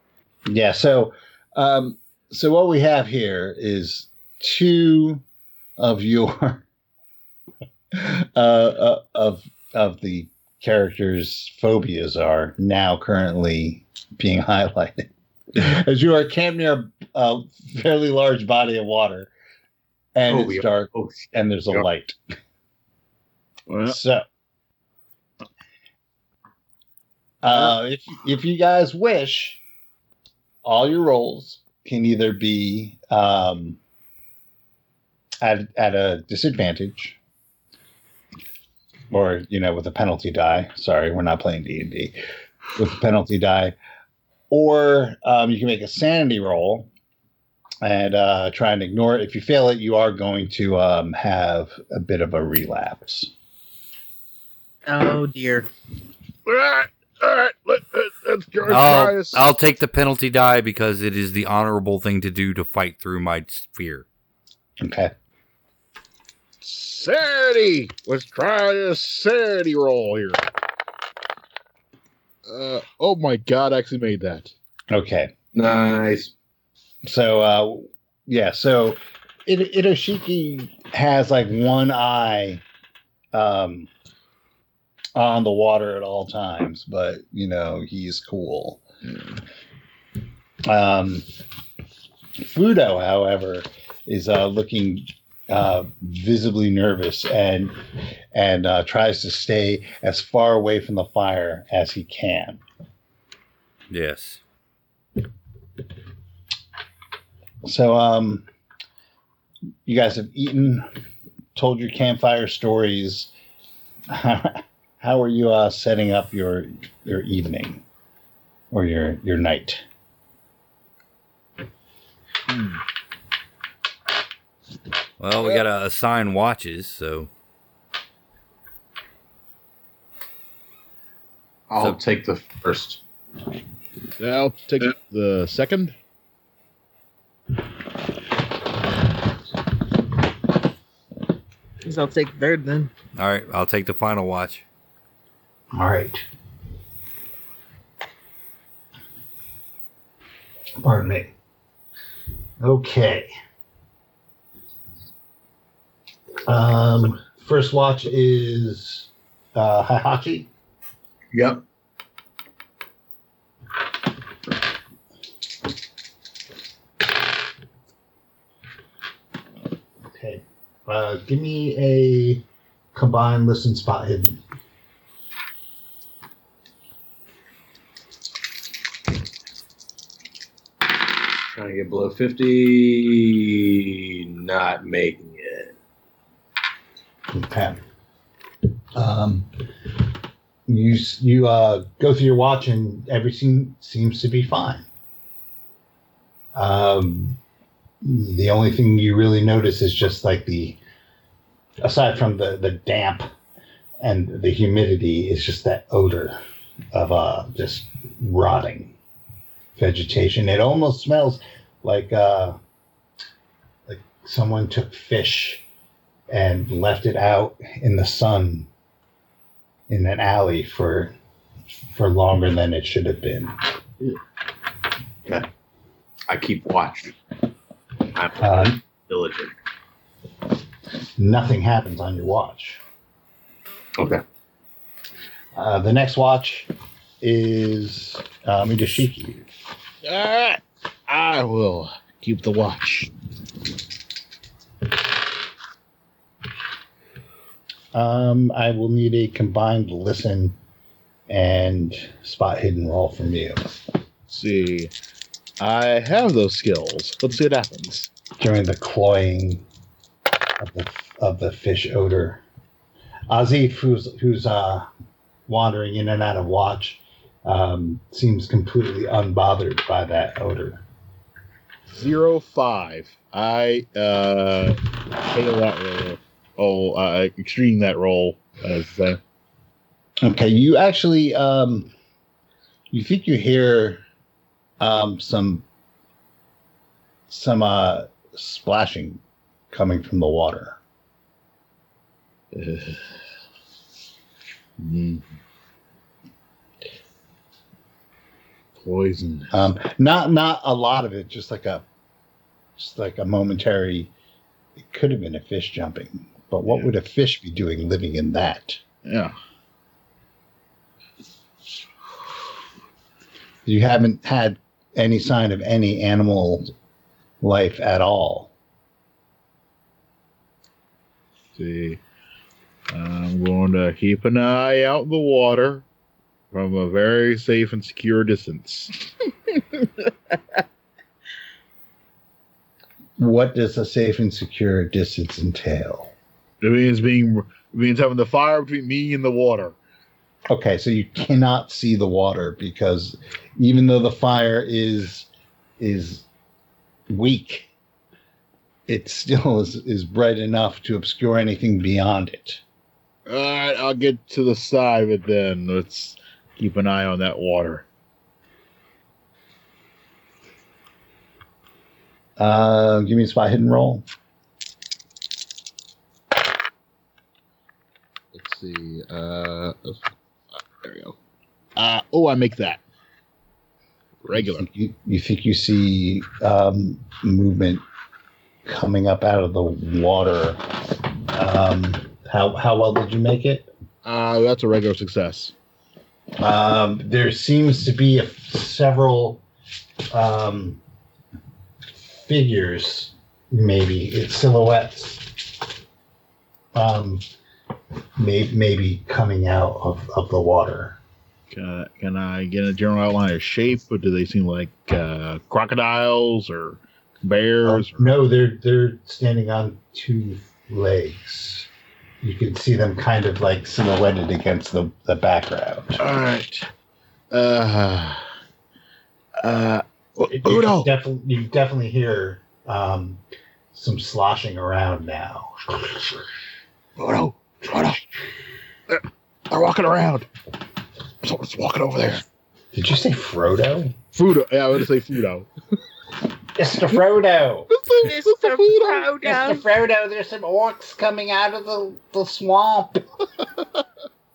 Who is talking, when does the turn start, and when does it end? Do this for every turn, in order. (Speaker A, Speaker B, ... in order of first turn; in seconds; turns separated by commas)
Speaker A: 0.5-5.2, Speaker A: 5.8-6.6, Speaker A: 7.9-19.3, Speaker A: 20.1-22.2, Speaker B: 20.3-21.9, Speaker C: 23.7-23.9, Speaker A: 23.9-24.2, Speaker A: 27.4-29.6, Speaker A: 30.6-33.8, Speaker A: 35.4-37.2, Speaker A: 39.1-42.2, Speaker A: 42.7-43.7, Speaker A: 44.5-46.9, Speaker A: 47.8-53.3, Speaker D: 54.9-55.7, Speaker C: 56.5-59.5, Speaker E: 58.7-64.0, Speaker A: 64.8-65.1, Speaker C: 66.6-70.4, Speaker C: 72.4-74.5, Speaker A: 74.9-75.3, Speaker B: 75.5-76.3, Speaker A: 77.0-82.6, Speaker A: 83.3-83.9, Speaker A: 85.1-88.8, Speaker A: 90.7-91.2, Speaker A: 92.4-97.8, Speaker A: 98.3-102.6, Speaker E: 103.9-104.4, Speaker A: 107.6-108.4, Speaker A: 109.8-110.8, Speaker A: 111.5-113.3, Speaker A: 114.1-117.8, Speaker A: 118.7-119.8, Speaker C: 122.5-122.8, Speaker E: 125.2-127.3, Speaker B: 131.7-133.0, Speaker C: 134.2-135.9, Speaker D: 141.8-142.9, Speaker E: 143.1-144.6, Speaker A: 145.7-146.2, Speaker A: 150.8-151.3, Speaker A: 152.6-153.3, Speaker A: 156.5-160.5, Speaker B: 161.3-161.6, Speaker A: 170.1-174.4, Speaker B: 181.5-185.7, Speaker A: 187.3-187.8, Speaker A: 188.9-189.5, Speaker A: 190.7-194.8, Speaker A: 196.5-197.4, Speaker A: 198.0-200.8, Speaker A: 201.8-203.3, Speaker A: 204.0-206.4, Speaker A: 206.9-208.9, Speaker A: 209.8-212.6, Speaker A: 213.9-215.6, Speaker A: 216.3-218.7, Speaker A: 219.9-221.1, Speaker A: 221.9-223.6, Speaker B: 226.3-227.1, Speaker B: 228.1-229.5, Speaker A: 228.4-228.8, Speaker A: 231.2-232.8, Speaker B: 234.0-234.2, Speaker A: 235.5-236.7, Speaker A: 237.2-239.4, Speaker C: 240.0-243.1, Speaker A: 247.9-250.6, Speaker A: 251.3-253.6, Speaker C: 254.3-254.9, Speaker C: 255.6-258.1, Speaker A: 258.3-259.6, Speaker A: 260.6-262.4, Speaker A: 263.3-264.9, Speaker A: 265.5-270.8, Speaker C: 271.9-279.2, Speaker A: 280.2-281.9, Speaker A: 282.9-284.0, Speaker A: 284.8-285.6, Speaker A: 287.3-290.8, Speaker C: 292.5-293.1, Speaker C: 294.8-295.2, Speaker C: 298.8-299.5, Speaker A: 299.5-301.9, Speaker A: 302.8-304.1, Speaker A: 304.8-308.8, Speaker C: 309.0-309.3, Speaker A: 313.6-316.7, Speaker A: 317.4-318.5, Speaker C: 321.6-322.0, Speaker C: 322.9-325.8, Speaker C: 326.5-329.1, Speaker A: 333.2-336.1, Speaker C: 336.6-339.8, Speaker A: 340.5-346.2, Speaker A: 347.1-347.7, Speaker A: 348.9-352.6, Speaker C: 353.3-357.8, Speaker A: 362.4-364.0, Speaker C: 368.3-370.0, Speaker C: 370.5-371.1, Speaker C: 371.8-372.8, Speaker C: 374.2-374.7, Speaker A: 374.4-377.8, Speaker A: 378.6-380.6, Speaker A: 381.3-383.7, Speaker C: 384.0-385.5, Speaker A: 386.4-389.4, Speaker A: 390.1-390.8, Speaker A: 392.2-395.5, Speaker A: 396.7-397.2, Speaker A: 398.2-401.0, Speaker C: 401.5-408.1, Speaker A: 407.6-411.7, Speaker A: 412.2-416.0, Speaker C: 416.0-416.7, Speaker C: 417.3-418.2, Speaker C: 419.4-420.9, Speaker A: 420.3-423.2, Speaker A: 423.7-426.0, Speaker C: 427.0-428.1, Speaker C: 428.9-430.3, Speaker C: 431.2-432.2, Speaker A: 432.7-433.9, Speaker C: 434.1-435.5, Speaker A: 436.6-437.7, Speaker C: 437.7-439.1, Speaker D: 438.0-439.6, Speaker A: 439.2-443.0